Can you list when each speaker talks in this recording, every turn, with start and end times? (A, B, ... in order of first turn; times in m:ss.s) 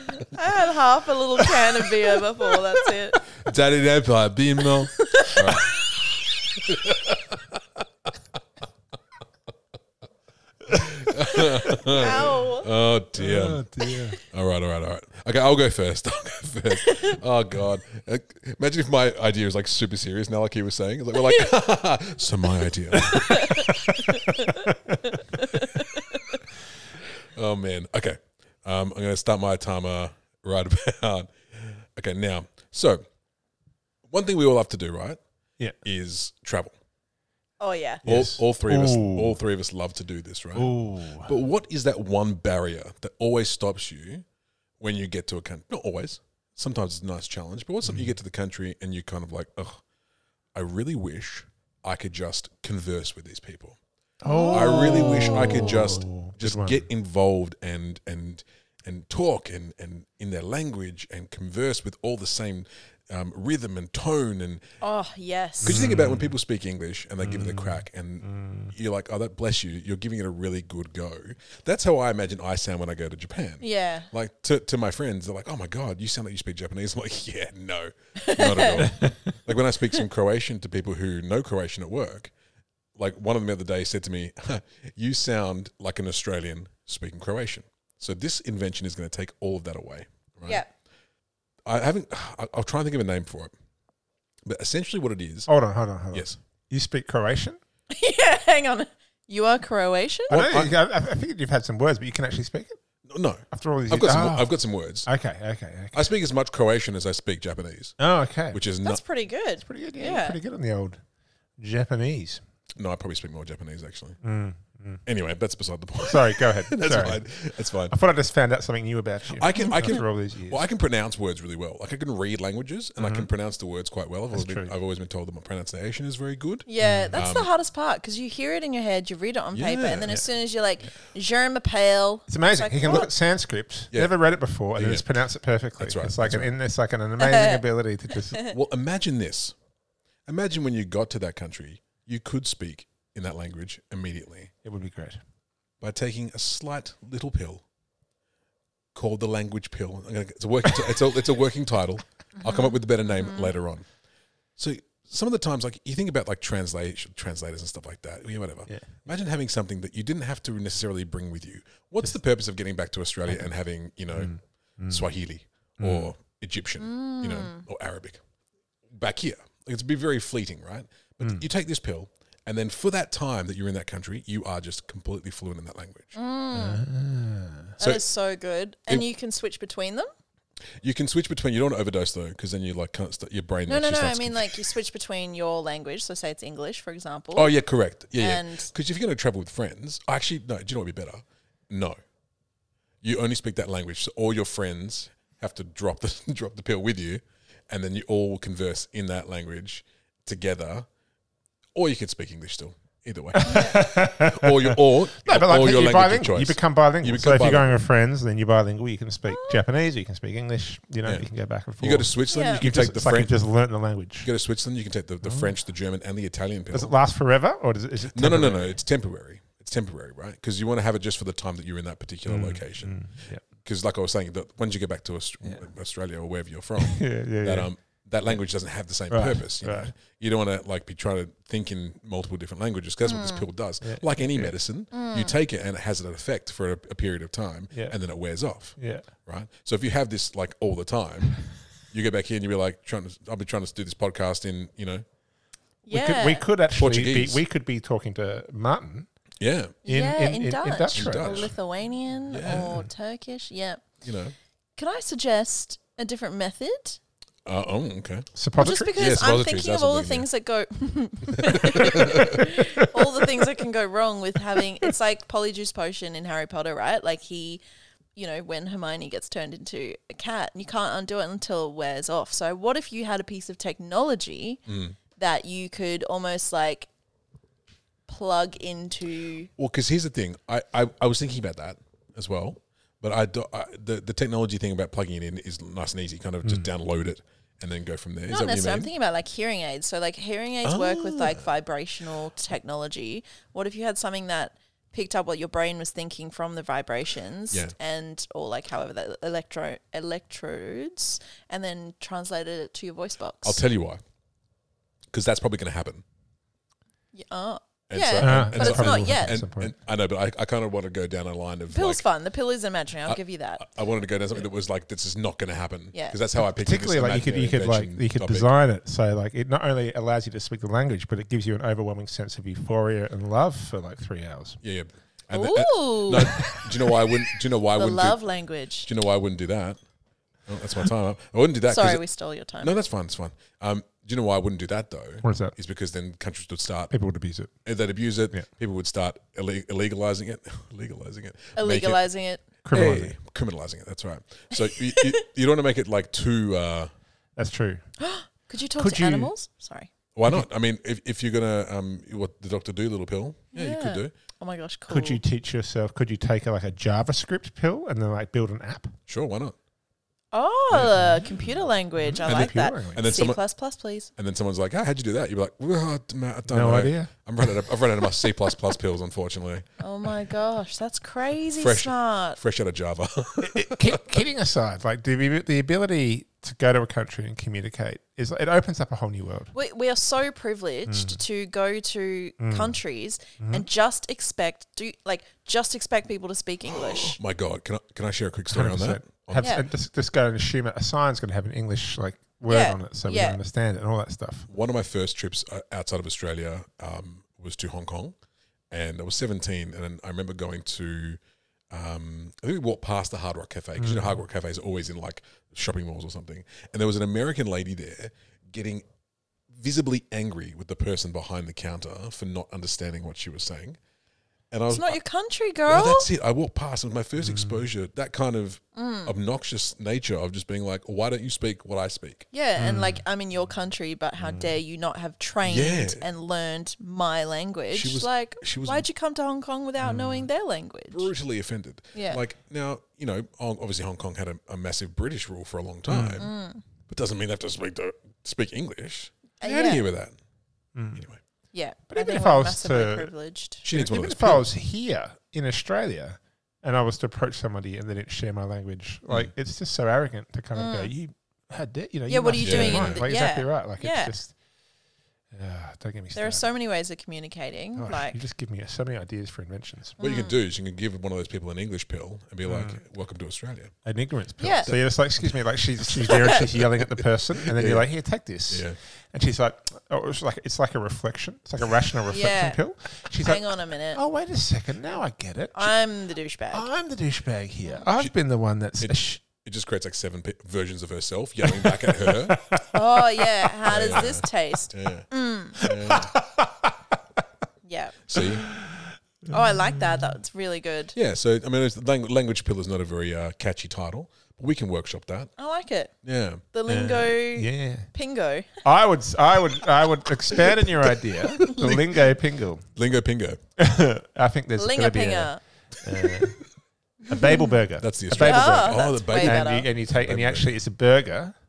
0:00.1-0:03.2 A
0:01.4-0:02.9 B
0:03.4-0:05.8 C
0:04.9-0:05.7 A
0:06.6-0:07.6 C
0:10.7-0:11.8 B
0:10.7-0:13.6 C
0:11.3-0:12.7 A
0:13.2-0:14.2 B
0:14.2-0:24.2 C
0:16.8-0:17.1 A
0:21.2-0:21.5 A
0:23.0-0:26.2 A
0:27.3-0:33.0 C
0:34.1-0:35.2 C
0:35.8-0:36.7 C
0:37.6-0:38.0 A
0:38.0-0:39.4 B
0:38.0-0:44.2 C
0:40.5-0:41.3 B
0:44.8-0:49.8 C
0:47.8-0:48.1 B
0:50.5-0:53.8 C
0:54.2-0:56.9 B
0:54.2-0:55.9 A
0:54.5-1:04.6 C
1:04.8-1:05.9 A
1:05.6-1:22.3 C
1:05.6-1:06.4 B
1:07.2-1:08.7 B
1:13.6-1:14.1 A
1:18.2-1:18.9 A
1:18.8-1:19.2 B
1:23.0-1:30.6 C
1:31.6-1:33.5 C
1:34.4-1:35.5 C
1:35.5-1:37.6 B
1:36.1-1:36.4 C
1:37.9-1:40.4 A
1:40.3-1:40.7 C
1:40.3-1:42.8 B
1:43.1-1:45.1 C
1:43.5-1:44.5 B
1:45.0-1:46.1 B
1:45.9-1:48.0 C
1:48.0-1:48.6 B
1:48.5-1:49.0 C
1:48.8-1:50.4 A
1:49.6-1:51.0 B
1:51.6-1:52.4 B
1:52.8-1:54.2 C
1:54.2-1:55.0 B
1:55.0-1:58.0 C
1:56.0-1:57.2 B
1:57.9-2:00.6 B
1:59.3-2:07.5 C
2:03.0-2:03.3 B
2:04.3-2:04.7 B
2:06.7-2:13.1 A
2:06.8-2:07.2 B
2:09.5-2:10.1 C
2:12.3-2:18.4 B
2:14.8-2:15.0 C
2:15.8-2:16.5 C
2:17.2-2:17.6 A
2:18.5-2:19.5 C
2:20.3-2:24.5 C
2:24.6-2:25.2 B
2:25.8-2:27.6 C
2:28.9-2:33.9 C
2:32.4-2:33.5 A
2:34.6-2:44.4 C
2:44.1-2:45.0 B
2:44.9-2:48.2 C
2:45.8-2:46.1 B
2:46.8-2:47.6 A
2:48.9-2:56.1 C
2:56.1-2:56.8 A
2:56.5-2:57.8 B
2:57.8-3:00.1 A
3:00.8-3:04.7 C
3:03.7-3:07.5 A
3:07.3-3:12.0 C
3:08.2-3:08.7 A
3:13.0-3:20.9 C
3:21.7-3:27.7 C
3:23.3-3:34.3 B
3:23.4-3:23.7 A
3:29.2-3:29.6 A
3:31.8-3:33.3 C
3:32.3-3:32.6 A
3:34.2-3:36.9 C
3:35.2-3:35.5 B
3:36.7-3:38.8 B
3:38.1-4:05.0 C
3:42.3-3:43.4 B
3:46.8-3:47.7 B
3:49.1-3:49.9 B
3:53.0-3:53.4 A
3:53.8-3:54.5 B
3:54.9-3:55.3 A
3:58.8-3:59.0 B
4:05.8-4:06.4 A
4:05.9-4:09.1 B
4:06.8-4:07.4 C
4:09.4-4:09.8 C
4:09.8-4:11.5 B
4:09.8-4:13.9 A
4:10.9-4:11.5 C
4:12.3-4:12.8 C
4:12.5-4:12.8 B
4:14.0-4:14.3 C
4:14.8-4:17.0 A
4:17.4-4:18.3 C
4:18.3-4:19.2 B
4:18.6-4:27.6 A
4:18.9-4:20.3 C
4:21.4-4:22.4 C
4:28.2-4:34.6 A
4:34.7-4:35.0 C
4:35.2-4:36.9 A
4:38.1-4:39.5 A
4:39.6-4:48.9 C
4:48.3-5:03.6 A
4:50.6-4:51.4 C
5:03.4-5:04.0 C
5:05.1-5:06.0 C
5:07.1-5:09.3 A
5:07.9-5:12.0 C
5:08.2-5:09.7 B
5:11.7-5:13.6 A
5:13.1-5:18.5 C
5:15.9-5:16.2 A
5:16.4-5:24.6 B
5:24.6-5:28.2 C
5:25.3-5:27.1 A
5:27.7-5:28.9 A
5:28.8-5:29.8 C
5:30.5-5:32.0 C
5:31.7-5:32.7 A
5:32.6-5:36.9 C
5:35.2-5:35.5 B
5:36.9-5:37.5 B
5:37.6-5:42.0 C
5:41.6-5:42.4 A
5:42.6-5:46.9 C
5:42.6-5:43.2 B
5:44.5-5:45.1 A
5:47.4-5:47.8 B
5:48.0-5:49.9 A
5:48.8-5:49.3 B
5:50.1-5:54.1 C
5:53.5-5:55.2 A
5:54.9-5:58.9 B
5:59.1-5:59.5 C
6:00.3-6:04.1 A
6:00.7-6:01.3 B
6:02.0-6:03.0 B
6:02.9-6:03.4 C
6:04.2-6:09.6 C
6:06.5-6:07.1 B
6:09.8-6:12.4 A
6:11.6-6:14.1 C
6:13.4-6:19.5 B
6:19.5-6:27.2 A
6:20.9-6:21.2 B
6:22.4-6:22.8 B
6:23.4-6:23.6 B
6:26.8-6:29.5 C
6:28.5-6:34.5 B
6:29.4-6:29.6 A
6:32.5-6:33.4 A
6:34.5-6:38.1 C
6:38.7-6:41.2 C
6:41.7-6:48.8 C
6:43.8-6:44.2 B
6:49.5-6:53.8 C
6:54.5-6:55.0 C
6:54.7-6:56.1 A
6:55.7-7:02.3 C
6:57.2-6:57.6 B
6:58.7-6:59.1 A
7:02.3-7:11.1 A
7:02.6-7:03.0 B
7:04.2-7:04.5 B
7:05.4-7:06.0 C
7:07.7-7:08.8 C
7:09.8-7:10.3 B
7:10.9-7:16.3 C
7:11.9-7:12.2 A
7:15.9-7:16.2 B
7:16.2-7:16.6 A
7:16.9-7:20.1 C
7:19.4-7:19.8 A
7:20.7-7:21.0 B
7:21.5-7:23.6 A
7:21.9-7:23.1 B
7:23.6-7:24.4 C
7:23.7-7:34.4 B
7:30.6-7:30.9 A
7:32.1-7:34.1 A
7:32.4-7:33.0 C
7:35.3-7:36.5 B
7:36.1-7:38.2 A
7:37.8-7:40.0 B
7:40.0-7:40.4 A
7:40.0-7:43.7 C
7:42.4-7:42.8 B
7:43.8-7:55.7 B
7:44.4-7:44.7 A
7:44.7-7:45.3 C
7:46.0-7:47.8 C
7:46.1-7:46.4 A
7:48.5-7:48.8 C
7:52.1-7:52.6 A
7:53.2-7:54.0 A
7:55.5-7:56.7 A
7:56.5-7:59.2 B
7:58.8-8:02.4 C
8:01.4-8:03.2 B
8:02.7-8:05.6 A
8:03.6-8:06.2 C
8:05.6-8:06.7 B
8:07.6-8:08.2 A
8:08.1-8:08.5 C
8:09.3-8:10.9 A
8:09.3-8:10.1 B
8:10.9-8:15.3 C
8:15.4-8:15.9 A
8:16.0-8:16.4 C
8:16.5-8:18.6 A
8:16.7-8:17.9 B
8:18.6-8:22.6 B
8:21.3-8:21.7 A
8:21.4-8:21.8 C
8:22.8-8:23.4 C
8:23.6-8:26.4 B
8:24.6-8:25.4 A
8:27.0-8:27.5 A
8:27.1-8:31.3 B
8:27.8-8:30.5 C
8:28.2-8:29.7 A